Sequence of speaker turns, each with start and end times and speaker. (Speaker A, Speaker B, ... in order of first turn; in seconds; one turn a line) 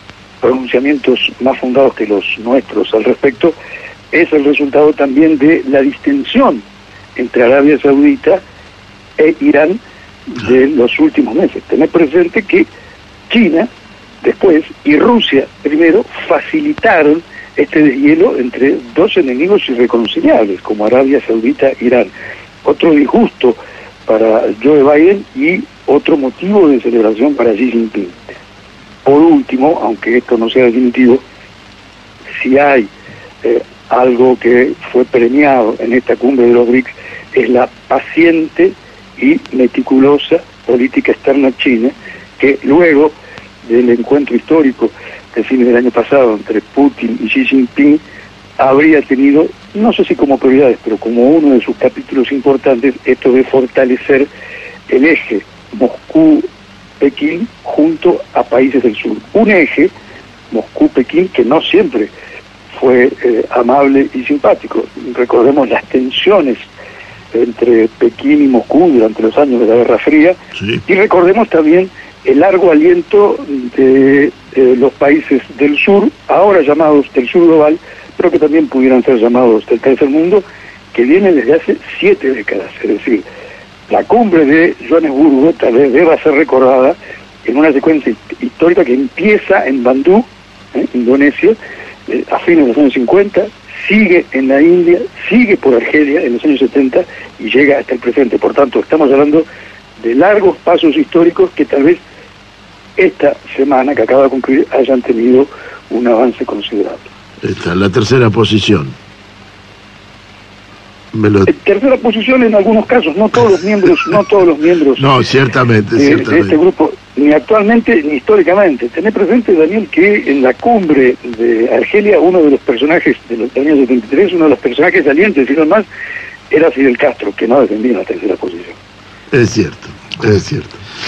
Speaker A: 0.4-3.5
Speaker A: 4.1-6.6
Speaker A: 7.2-8.4
Speaker A: 9.2-12.7
Speaker A: 13.3-13.7
Speaker A: 14.2-22.1
Speaker A: 22.6-28.2
Speaker A: 29.0-31.2
Speaker A: 32.4-32.9
Speaker A: 33.4-48.0
Speaker A: 48.6-54.3
Speaker A: 54.9-56.5
Speaker A: 57.0-59.9
Speaker A: 60.5-62.1
Speaker A: 62.7-66.6
Speaker A: 67.3-83.2
Speaker A: 83.9-99.5
Speaker A: 100.0-102.0
Speaker A: 103.0-107.1
Speaker B: 107.4-109.0
Speaker B: 111.1-111.5
Speaker A: 111.5-115.0
Speaker B: 115.0-116.6
Speaker A: 116.0-125.8
Speaker A: 126.5-128.8
Speaker B: 129.3-130.8